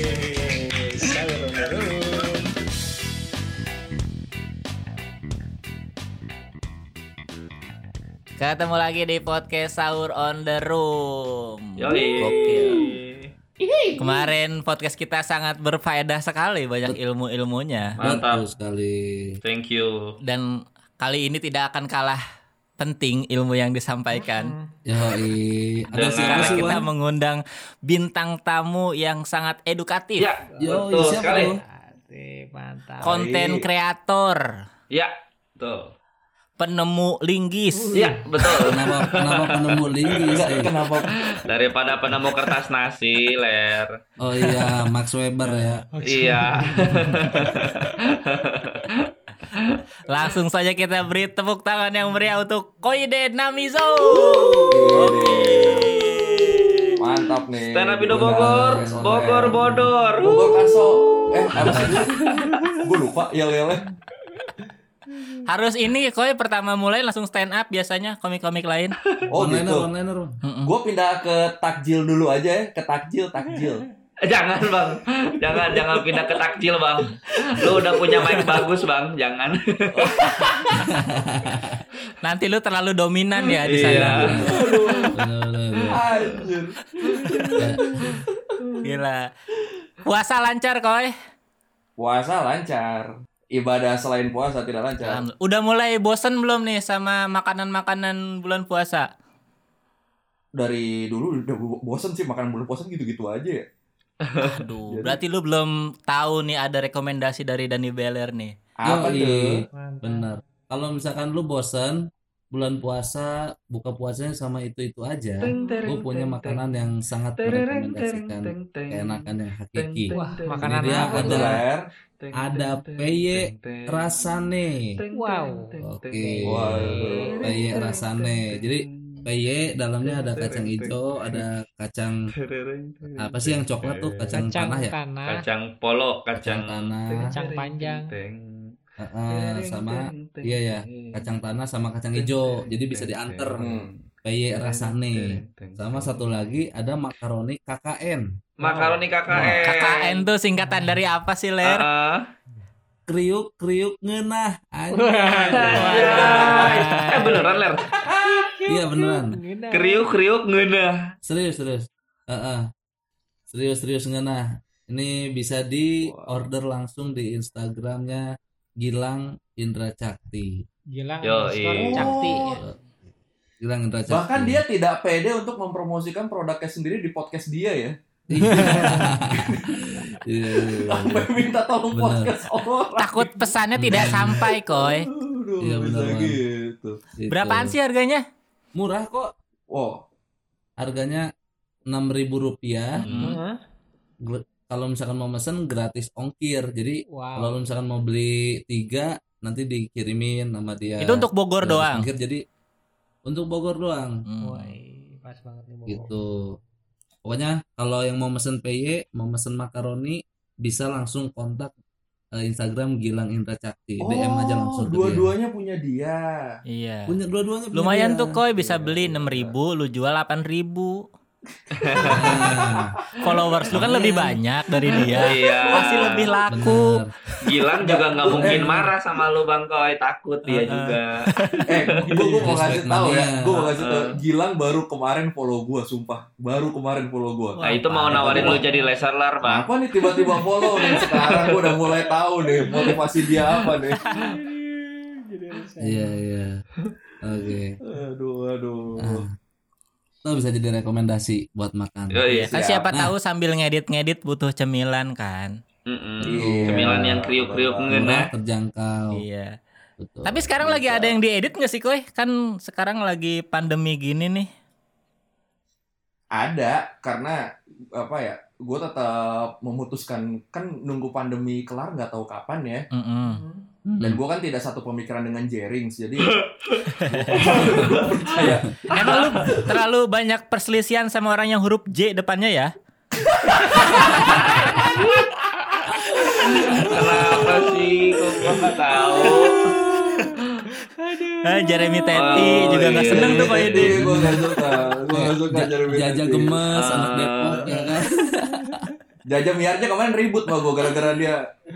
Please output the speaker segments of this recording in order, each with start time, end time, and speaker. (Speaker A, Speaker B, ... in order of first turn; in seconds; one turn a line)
Speaker A: 1.1-2.0
Speaker B: 1.7-2.0
Speaker C: 8.4-12.9
Speaker B: 11.8-13.3
Speaker D: 11.9-12.9
Speaker D: 13.6-14.3
Speaker C: 14.0-18.0
Speaker B: 18.0-18.4
Speaker A: 18.0-19.3
Speaker B: 19.4-20.1
Speaker C: 21.0-22.2
Speaker C: 22.8-24.5
Speaker E: 24.2-24.6
Speaker A: 24.9-26.8
Speaker B: 25.9-26.8
Speaker C: 26.2-30.3
Speaker B: 30.2-31.5
Speaker E: 30.5-33.1
Speaker A: 30.6-31.5
Speaker C: 33.0-34.4
Speaker D: 33.0-33.6
Speaker B: 34.9-35.9
Speaker C: 36.6-38.0
Speaker E: 37.8-38.5
Speaker B: 37.9-43.9
Speaker A: 38.7-40.7
Speaker D: 40.3-41.3
Speaker A: 44.2-45.9
Speaker D: 44.4-44.9
Speaker E: 45.9-47.8
Speaker B: 46.0-49.8
Speaker C: 50.1-57.0
Speaker D: 54.7-55.9
Speaker D: 57.0-62.1
Speaker B: 57.6-60.6
Speaker A: 58.1-59.9
Speaker B: 61.5-61.9
Speaker A: 61.6-62.5
Speaker D: 62.8-63.9
Speaker C: 65.5-69.0
Speaker D: 69.3-69.9
Speaker A: 69.3-70.4
Speaker C: 70.4-70.7
Speaker D: 70.6-73.8
Speaker B: 74.2-80.2
Speaker D: 75.4-76.5
Speaker D: 77.3-78.5
Speaker D: 80.0-80.6
Speaker C: 80.2-80.7
Speaker A: 80.7-81.8
Speaker C: 82.2-84.5
Speaker B: 83.6-85.1
Speaker A: 83.8-84.6
Speaker D: 84.4-85.2
Speaker A: 85.1-86.0
Speaker D: 85.9-87.7
Speaker B: 88.1-88.8
Speaker C: 88.8-89.3
Speaker C: 90.0-91.1
Speaker D: 92.0-95.2
Speaker C: 95.0-99.1
Speaker D: 100.6-103.6
Speaker B: 104.2-104.5
Speaker C: 104.4-108.5
Speaker D: 104.9-105.2
Speaker D: 108.8-109.7
Speaker A: 108.8-121.6
Speaker E: 109.7-110.3
Speaker B: 115.4-116.7
Speaker E: 115.4-116.0
Speaker B: 117.3-121.6
Speaker E: 120.1-121.6
Speaker D: 120.8-121.8
Speaker B: 122.2-129.3
Speaker A: 122.3-124.9
Speaker E: 125.1-127.9
Speaker A: 125.8-132.2
Speaker D: 126.4-127.4
Speaker B: 130.0-131.5
Speaker B: 132.4-134.5
Speaker A: 133.2-134.9
Speaker E: 134.3-135.4
Speaker B: 135.2-138.7
Speaker A: 136.3-137.2
Speaker E: 137.3-138.1
Speaker A: 139.0-143.6
Speaker B: 139.3-141.4
Speaker B: 142.1-144.0
Speaker D: 143.6-143.9
Speaker A: 144.2-148.2
Speaker B: 144.5-146.2
Speaker B: 148.6-150.3
Speaker A: 149.3-149.6
Speaker C: 149.4-151.8
Speaker E: 150.6-151.0
Speaker B: 151.6-152.3
Speaker A: 153.1-155.8
Speaker E: 155.0-160.1
Speaker B: 155.6-157.9
Speaker C: 155.7-157.3
Speaker D: 155.9-156.8
Speaker D: 158.0-158.4
Speaker A: 158.7-159.4
Speaker B: 159.7-160.9
Speaker A: 161.2-162.7
Speaker A: 163.5-168.3
Speaker D: 166.0-166.4
Speaker A: 168.8-170.6
Speaker E: 170.9-172.7
Speaker B: 171.2-172.1
Speaker D: 171.8-172.6
Speaker C: 171.9-172.6
Speaker A: 173.6-174.6
Speaker D: 174.1-187.0
Speaker A: 178.3-181.4
Speaker C: 178.4-178.9
Speaker A: 181.9-182.3
Speaker C: 183.0-185.1
Speaker A: 183.8-184.4
Speaker A: 185.6-186.4
Speaker A: 187.2-187.7
Speaker C: 187.3-188.2
Speaker A: 188.8-189.3
Speaker D: 189.7-190.0
Speaker A: 190.8-191.3
Speaker A: 191.9-193.0
Speaker B: 193.0-193.5
Speaker C: 193.0-193.4
Speaker A: 194.2-202.4
Speaker E: 197.1-197.7
Speaker C: 201.0-202.1
Speaker A: 203.3-204.2
Speaker C: 204.3-204.8
Speaker E: 204.4-206.2
Speaker A: 205.9-206.3
Speaker A: 207.2-211.7
Speaker A: 212.4-215.3
Speaker D: 214.0-216.5
Speaker C: 216.7-217.2
Speaker A: 217.1-218.4
Speaker C: 217.7-221.0
Speaker D: 218.5-219.5
Speaker D: 221.5-222.9
Speaker B: 221.8-222.5
Speaker A: 222.1-222.9
Speaker C: 223.2-227.0
Speaker A: 223.7-224.3
Speaker B: 225.0-226.3
Speaker D: 225.8-226.1
Speaker A: 226.5-227.1
Speaker B: 227.4-231.2
Speaker D: 227.7-228.9
Speaker C: 230.5-232.1
Speaker D: 231.7-237.6
Speaker A: 232.4-233.7
Speaker B: 233.8-234.2
Speaker C: 237.5-238.7
Speaker B: 237.6-239.7
Speaker D: 238.1-238.6
Speaker D: 239.4-244.0
Speaker B: 240.3-241.9
Speaker C: 244.0-244.3
Speaker E: 244.1-246.2
Speaker A: 245.8-246.5
Speaker A: 247.2-247.8
Speaker D: 247.8-249.2
Speaker A: 249.0-249.3
Speaker A: 250.2-252.3
Speaker B: 252.1-252.5
Speaker D: 252.3-252.8
Speaker C: 252.3-255.5
Speaker B: 255.9-258.3
Speaker D: 256.2-258.2
Speaker A: 256.4-257.2
Speaker A: 257.9-259.2
Speaker C: 259.1-259.5
Speaker A: 260.0-261.0
Speaker C: 260.2-264.5
Speaker D: 266.3-267.4
Speaker D: 267.9-272.9
Speaker C: 272.9-273.4
Speaker B: 273.3-273.6
Speaker A: 273.9-274.2
Speaker D: 274.0-276.4
Speaker B: 276.5-276.8
Speaker C: 277.0-277.6
Speaker D: 277.1-279.6
Speaker B: 277.4-279.4
Speaker C: 278.9-282.7
Speaker C: 283.5-285.1
Speaker B: 283.5-285.3
Speaker C: 285.9-287.5
Speaker D: 286.3-287.6
Speaker B: 286.4-289.8
Speaker D: 288.4-289.3
Speaker E: 289.2-292.1
Speaker C: 291.4-294.0
Speaker B: 292.1-293.9
Speaker D: 292.3-296.6
Speaker A: 293.8-294.5
Speaker E: 294.6-294.9
Speaker A: 295.1-298.9
Speaker B: 296.7-297.7
Speaker E: 298.5-298.9
Speaker D: 299.3-301.4